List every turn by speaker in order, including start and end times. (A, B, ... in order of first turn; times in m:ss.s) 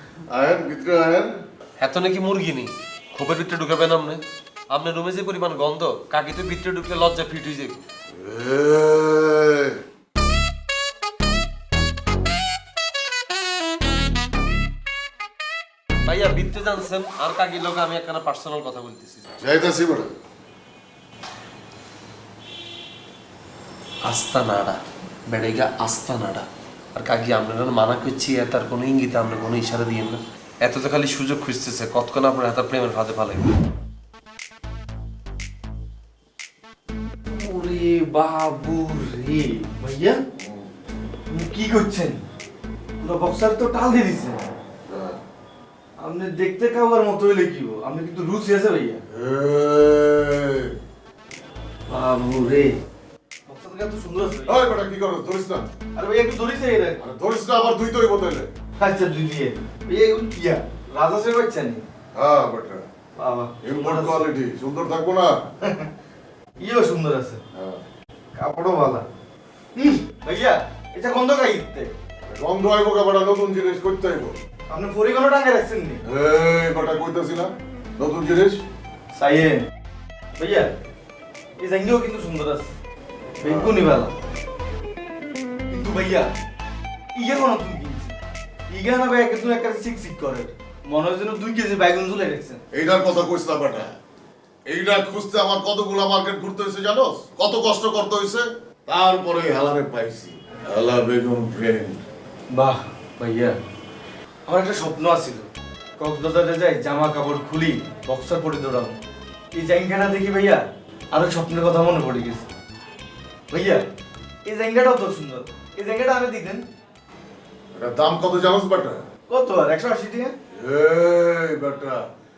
0:00.3-0:01.4 A
0:01.8-0:07.9 B
0:08.2-0:09.8 A
0:16.0-0:19.3 B
0:19.4-0:20.1 A
0:24.0-0:33.5 B
0:37.3-0:40.2 C
0:40.4-0:40.7 A
0:41.3-0:42.2 C
0:43.0-0:44.5 C
0:44.9-0:45.2 A
0:46.0-0:49.0 C
0:49.1-0:50.8 A
0:51.9-0:52.8 C
0:53.5-0:54.7 C
0:54.5-0:55.7 A
0:56.0-0:57.0 C
0:57.0-0:58.5 A
0:58.8-1:01.8 C
1:02.2-1:02.9 A
1:03.2-1:04.3 C
1:03.6-1:05.3 A
1:05.6-1:05.9 C
1:06.6-1:07.4 C
1:07.6-1:07.8 A
1:08.4-1:09.0 C
1:09.8-1:11.9 C
1:12.3-1:14.4 A
1:14.7-1:16.0 C
1:16.1-1:18.6 A
1:19.1-1:19.7 C
1:20.4-1:20.7 C
1:21.6-1:22.7 C
1:23.4-1:24.1 C
1:23.4-1:23.8 A
1:25.7-1:26.3 C
1:27.2-1:28.2 C
1:28.7-1:32.6 C
1:32.7-1:33.9 A
1:34.7-1:42.0 A
1:42.5-1:43.6 C
1:44.5-1:49.0 C
1:49.5-1:52.5 C
1:53.5-1:53.8 C
1:54.4-1:56.7 C
1:57.8-1:59.0 A
1:59.3-2:00.4 C
2:00.5-2:02.0 A